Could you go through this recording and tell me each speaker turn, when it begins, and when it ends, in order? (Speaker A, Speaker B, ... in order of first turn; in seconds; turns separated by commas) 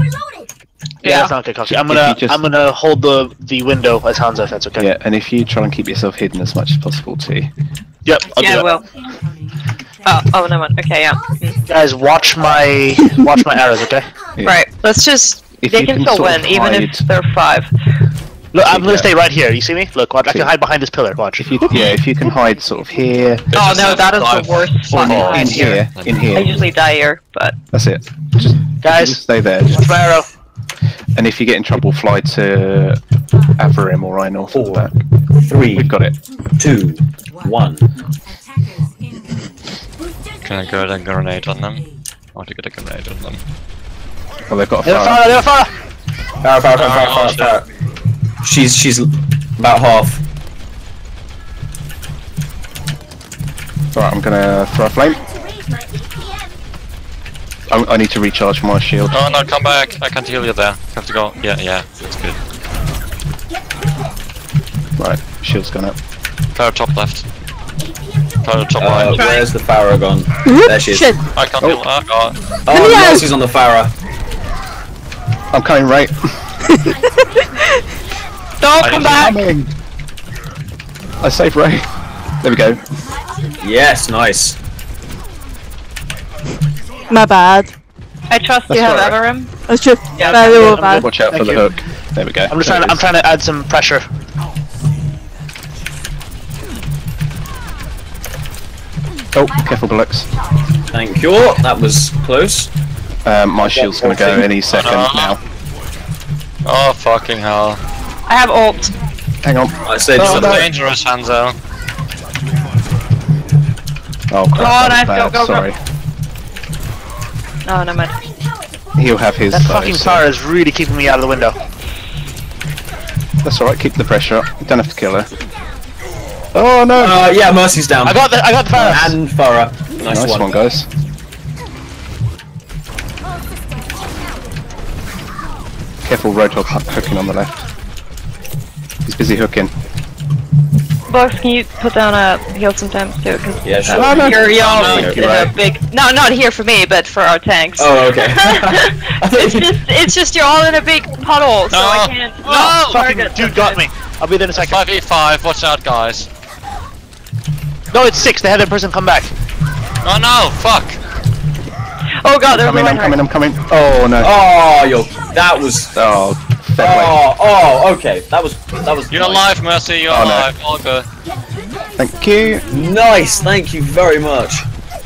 Speaker A: 1.0-1.3, Speaker B: 1.1-4.9, Speaker C: 1.7-2.4, Speaker C: 4.8-7.5, Speaker B: 8.1-8.7, Speaker A: 8.4-8.8, Speaker A: 10.1-11.6, Speaker B: 11.7-14.1, Speaker A: 14.4-17.7, Speaker C: 15.6-17.0, Speaker B: 18.5-21.6, Speaker C: 18.7-19.1, Speaker C: 21.4-23.4, Speaker D: 23.5-26.3, Speaker A: 23.5-27.6, Speaker C: 24.9-26.7, Speaker C: 27.7-30.0, Speaker B: 28.8-30.3, Speaker C: 31.1-33.0, Speaker C: 33.6-35.0, Speaker E: 34.5-34.9, Speaker E: 35.5-35.9, Speaker C: 35.7-36.2, Speaker E: 36.6-37.9, Speaker D: 40.4-43.4, Speaker C: 44.5-45.2, Speaker B: 44.9-45.7, Speaker E: 46.4-47.7, Speaker D: 46.8-47.6, Speaker E: 48.4-50.2, Speaker C: 54.0-55.2, Speaker C: 57.7-59.3, Speaker D: 59.1-62.4, Speaker C: 65.0-66.0, Speaker D: 66.5-67.2, Speaker D: 68.4-69.2, Speaker E: 68.8-71.1, Speaker A: 69.1-69.5, Speaker F: 70.4-71.2, Speaker D: 71.3-72.5, Speaker E: 72.7-73.9, Speaker F: 72.7-73.3, Speaker C: 75.5-76.2, Speaker A: 78.6-79.4, Speaker D: 78.8-79.4, Speaker C: 79.0-79.7, Speaker C: 81.2-81.9, Speaker C: 82.4-82.8, Speaker E: 83.6-84.6, Speaker F: 87.1-87.7, Speaker A: 88.3-89.5, Speaker C: 88.7-89.2, Speaker F: 89.7-91.1, Speaker A: 90.1-90.4, Speaker B: 90.2-91.6, Speaker C: 90.4-93.0, Speaker B: 92.5-94.1, Speaker C: 99.3-100.3, Speaker E: 100.9-102.7, Speaker C: 103.2-105.4, Speaker E: 103.6-104.5, Speaker D: 104.7-105.4, Speaker D: 106.6-107.8, Speaker A: 108.3-108.9, Speaker C: 109.4-110.7, Speaker E: 109.9-110.7, Speaker D: 110.2-111.6, Speaker C: 114.3-115.8, Speaker A: 114.6-115.7, Speaker A: 117.7-118.2, Speaker C: 119.0-120.2, Speaker B: 119.5-121.6, Speaker C: 123.4-125.3, Speaker C: 126.5-127.2, Speaker E: 127.0-128.2, Speaker B: 128.0-129.2, Speaker E: 128.8-130.5, Speaker C: 130.1-130.9, Speaker C: 136.1-137.7, Speaker C: 139.1-139.7, Speaker A: 141.1-153.8, Speaker E: 143.6-145.2, Speaker C: 143.9-145.5, Speaker D: 144.6-145.2, Speaker E: 147.8-149.8, Speaker D: 151.7-153.0, Speaker B: 152.5-154.8, Speaker D: 154.5-156.3, Speaker B: 157.9-159.3, Speaker D: 160.0-161.0, Speaker A: 162.2-163.2, Speaker C: 162.5-164.3, Speaker E: 164.2-165.9, Speaker C: 165.9-167.2, Speaker E: 166.8-169.5, Speaker D: 169.1-171.1, Speaker C: 170.1-170.5, Speaker C: 172.0-172.7, Speaker E: 172.7-174.7